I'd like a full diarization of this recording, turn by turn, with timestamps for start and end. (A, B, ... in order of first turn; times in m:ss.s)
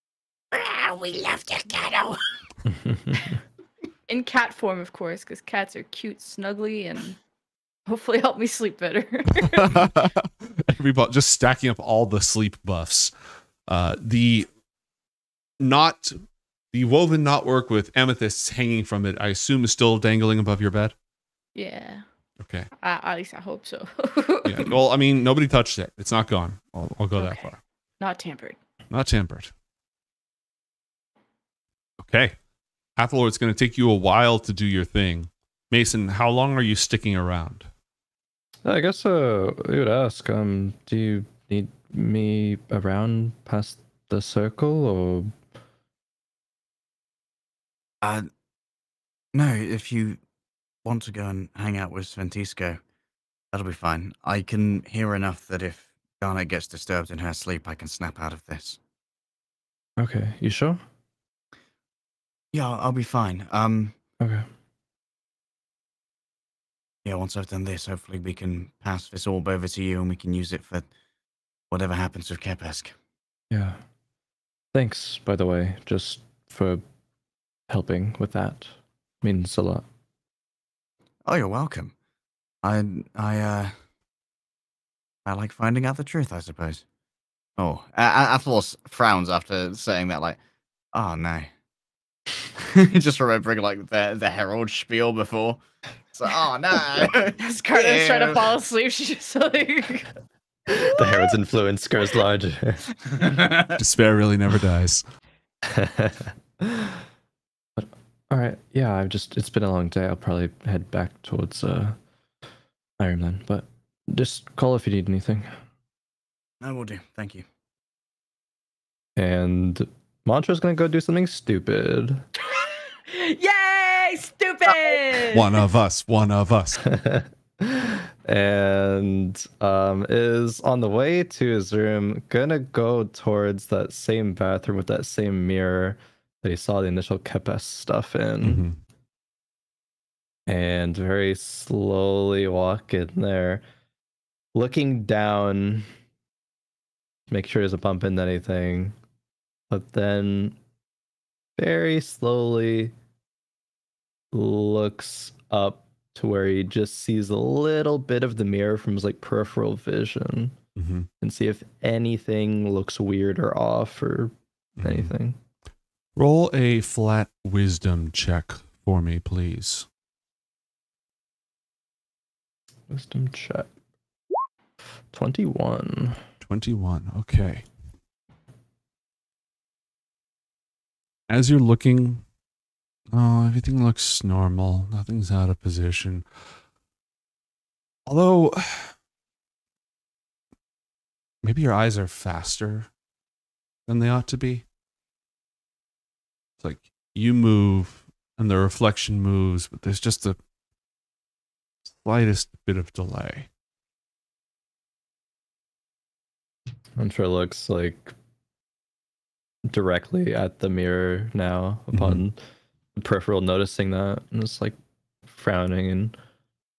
0:00.5-0:02.2 A
0:02.7-0:03.2 B
0:04.1-0:07.2 A
0:07.9-0:09.9 A
0:09.5-0:13.1 C
0:13.7-0:14.5 C
0:15.6-0:20.9 C
0:21.6-0:22.0 A
0:22.4-0:22.7 C
0:22.8-0:24.7 A
0:24.4-0:27.6 C
0:27.2-0:27.5 A
0:28.0-0:28.6 A
0:28.9-0:29.5 C
0:32.0-0:32.4 C
0:33.0-0:37.7 C
0:38.6-0:45.3 B
0:48.0-0:48.3 D
0:49.3-0:50.2 D
0:50.8-0:52.8 D
0:53.5-0:58.8 D
1:00.0-1:00.8 B
1:02.5-1:04.0 D
1:04.2-1:04.5 B
1:07.0-1:10.9 D
1:11.7-1:12.9 D
1:13.5-1:13.8 B
1:14.7-1:16.8 B
1:17.7-1:19.8 B
1:21.3-1:21.9 D
1:22.6-1:23.7 D
1:25.3-1:26.8 D
1:27.6-1:30.4 D
1:30.9-1:31.5 D
1:32.6-1:35.6 D
1:36.2-1:38.4 D
1:37.4-1:40.1 A
1:40.7-1:42.9 B
1:40.7-1:41.3 A
1:43.1-1:43.8 D
1:43.8-1:45.0 C
1:45.6-1:47.0 B
1:47.8-1:52.0 B
1:53.0-1:55.5 B
1:56.6-1:57.4 D
1:59.2-2:02.2 B
2:02.4-2:05.5 A
2:05.3-2:06.8 C
2:06.8-2:18.7 B
2:18.4-2:18.8 C
2:20.5-2:23.6 B
2:24.5-2:25.9 B
2:27.3-2:29.0 B
2:29.7-2:30.6 B
2:31.6-2:32.9 B
2:34.3-2:40.6 B
2:40.8-2:41.1 C
2:41.2-2:45.4 B
2:44.8-2:45.1 C
2:46.2-2:49.9 C
2:52.9-2:53.7 B
2:55.1-2:56.2 B
2:56.4-2:57.7 C
3:01.3-3:02.2 C
3:03.1-3:06.3 C
3:08.1-3:08.9 C
3:11.4-3:12.9 C
3:13.9-3:14.6 C
3:16.6-3:20.4 C
3:21.9-3:23.5 C
3:27.0-3:28.2 B
3:29.7-3:32.4 B
3:31.9-3:32.2 C
3:33.0-3:36.2 B